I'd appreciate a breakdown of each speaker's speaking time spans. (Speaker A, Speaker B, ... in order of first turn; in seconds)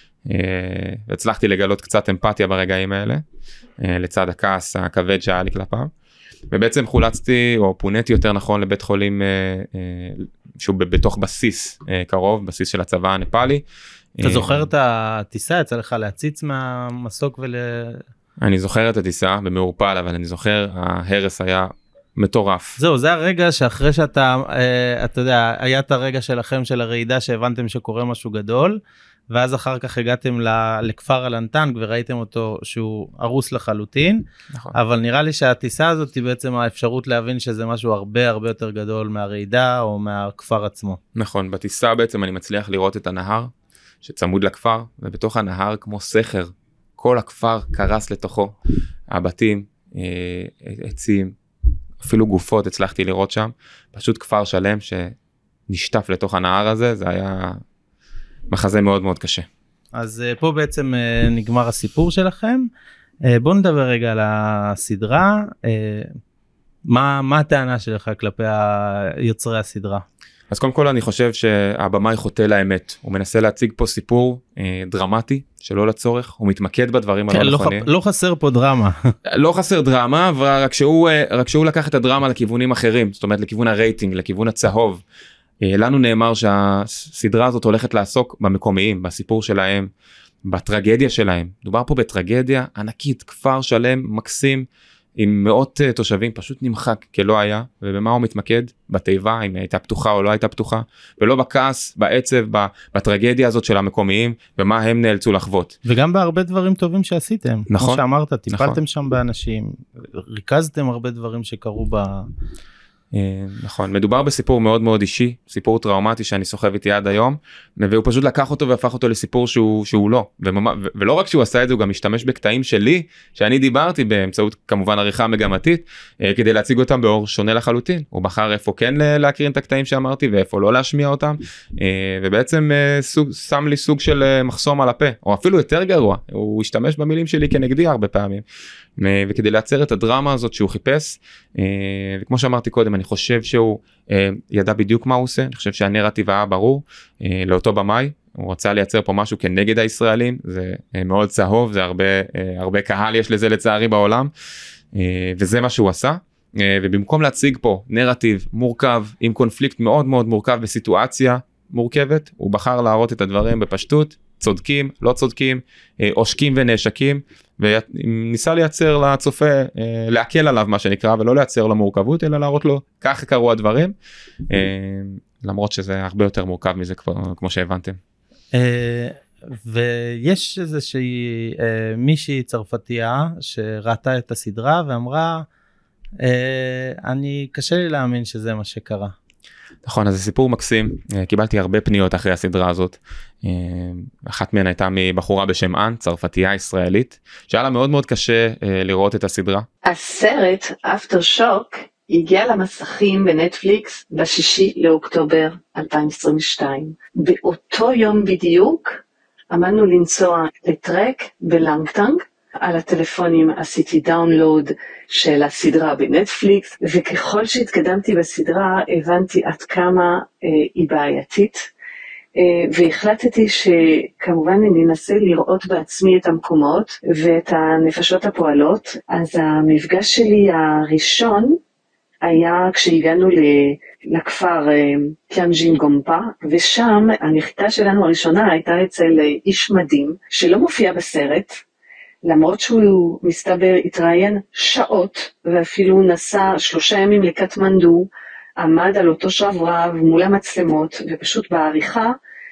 Speaker A: 0.2-3.2, 3.8-5.9, 6.5-13.6, 14.2-14.7, 18.4-22.8, 41.1-48.5, 49.1-51.4, 52.0-55.1, 55.7-57.6, 58.5-59.5, 70.5-77.9, 79.2-85.0, 85.6-89.9, 90.5-105.8, 107.7-108.8, 113.1-138.4, 139.0-154.3, 154.9-173.9, 174.5-178.0, 189.8-199.7
Speaker B: 14.2-18.0, 22.8-28.8, 29.3-41.0, 59.9-62.7, 63.3-66.1, 66.9-70.0, 77.3-79.1, 105.8-112.3, 178.5-185.4, 186.2-189.1
Speaker C: 199.8-209.0, 209.5-221.7, 222.3-231.6, 232.2-241.6, 242.2-252.2